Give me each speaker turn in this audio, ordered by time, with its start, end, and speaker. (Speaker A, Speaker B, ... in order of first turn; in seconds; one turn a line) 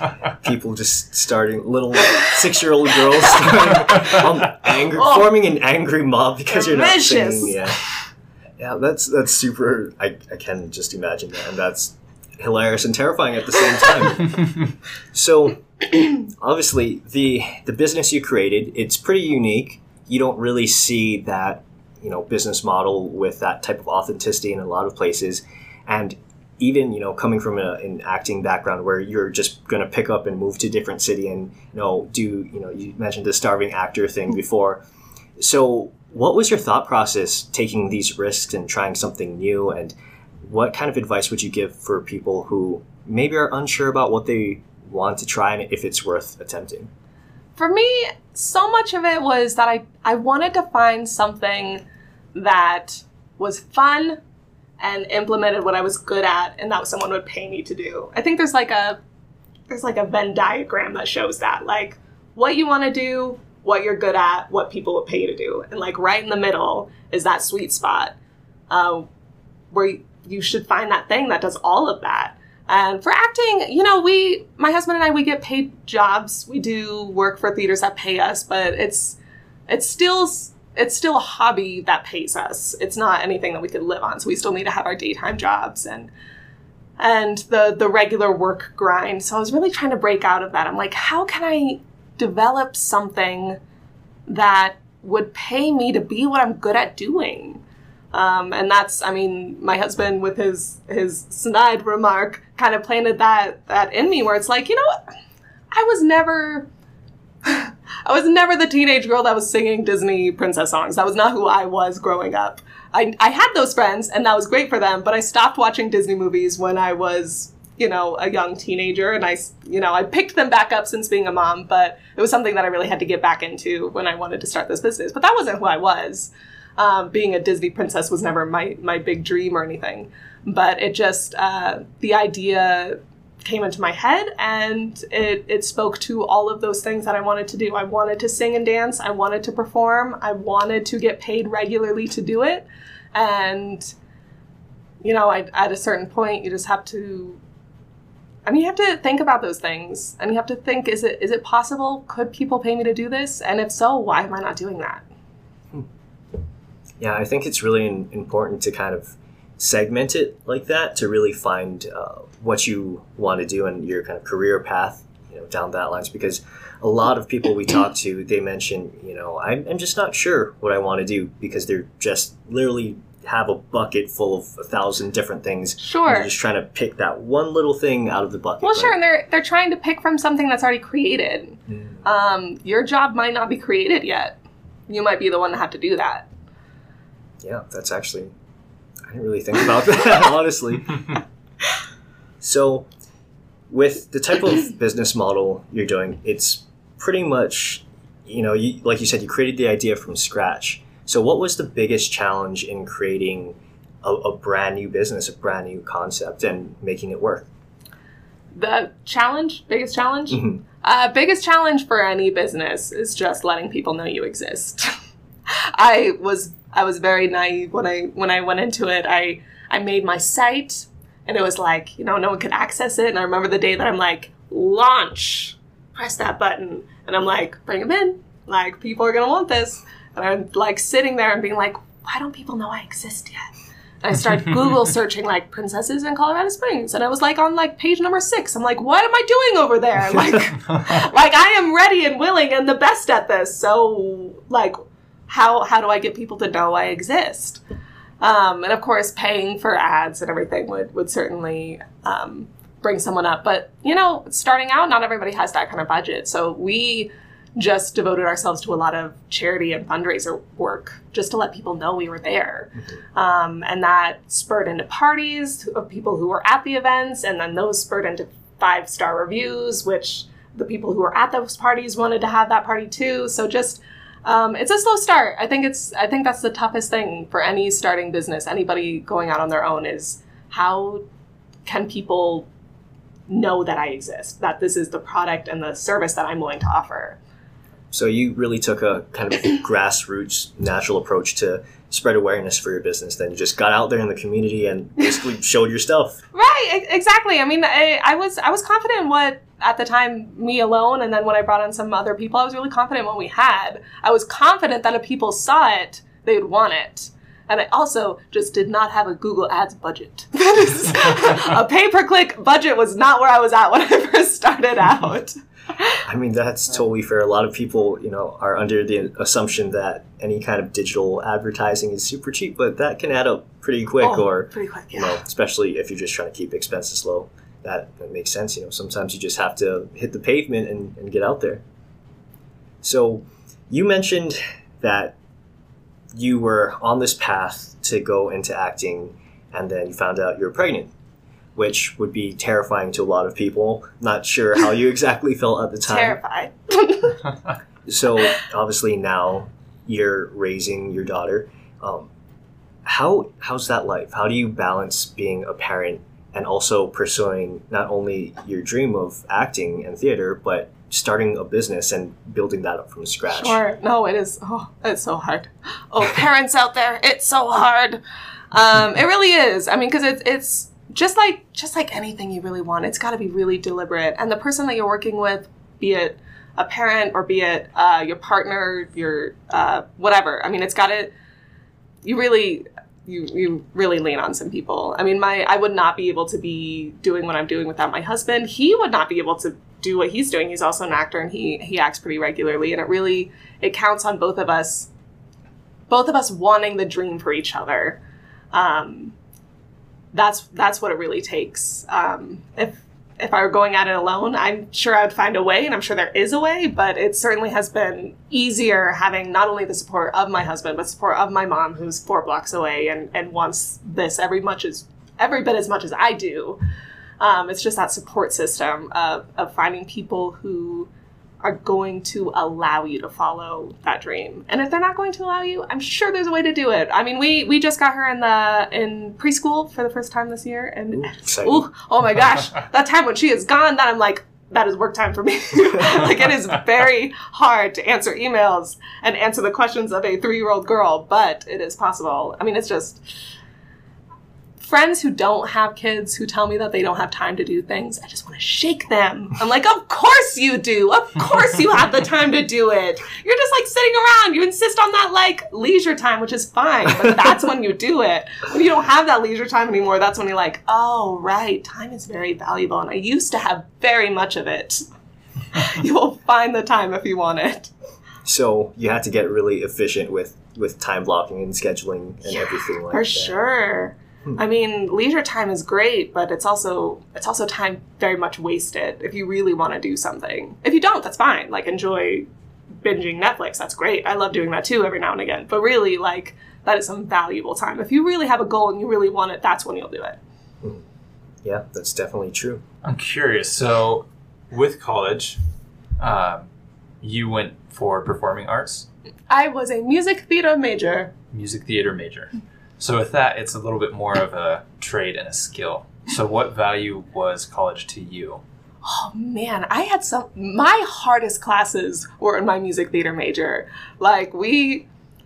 Speaker A: 0.4-7.8
Speaker B: 5.0-5.3
Speaker B: 6.5-7.6
Speaker A: 8.6-14.4
Speaker A: 15.1-34.8
Speaker A: 35.4-46.9
Speaker B: 47.6-51.8
Speaker B: 52.4-54.2
Speaker B: 54.8-59.0
Speaker B: 59.7-68.2
Speaker B: 68.7-69.1
Speaker B: 69.7-79.2
Speaker B: 79.7-86.1
Speaker B: 87.0-93.6
Speaker B: 94.3-97.6
Speaker B: 98.1-105.0
Speaker B: 105.7-106.7
Speaker B: 107.4-143.9
Speaker B: 145.0-147.4
Speaker B: 148.4-155.0
Speaker A: 157.0-179.0
Speaker B: 175.8-176.3
Speaker B: 178.6-186.3
Speaker A: 181.7-182.0
Speaker A: 187.4-188.3
Speaker A: 189.1-191.2
Speaker A: 192.4-192.9
Speaker A: 193.7-207.5
Speaker B: 208.5-214.9
Speaker A: 210.3-210.6
Speaker B: 215.5-233.5
Speaker B: 234.0-244.8
Speaker B: 245.3-247.6
Speaker B: 248.2-281.0
Speaker B: 281.7-282.5
Speaker B: 283.3-287.2
Speaker A: 287.9-296.2
Speaker B: 296.3-315.9
Speaker A: 316.1-331.6
Speaker B: 324.0-325.2
Speaker A: 332.8-335.2
Speaker A: 336.1-340.9
Speaker A: 341.6-346.2
Speaker B: 345.9-347.2
Speaker A: 347.9-352.1
Speaker A: 352.9-363.6
Speaker B: 363.3-381.1
Speaker B: 382.0-394.9
Speaker B: 395.9-398.0
Speaker B: 398.5-399.1
Speaker B: 400.1-416.6
Speaker B: 417.2-420.9
Speaker B: 421.4-443.0
Speaker A: 431.0-431.7
Speaker B: 444.6-464.8
Speaker B: 465.5-467.7
Speaker A: 468.2-473.4
Speaker B: 472.3-482.3
Speaker B: 482.8-490.2
Speaker A: 491.4-492.6
Speaker C: 492.8-495.4
Speaker C: 496.0-496.5
Speaker C: 497.0-498.9
Speaker B: 499.3-501.1
Speaker C: 501.3-508.4
Speaker B: 508.8-514.9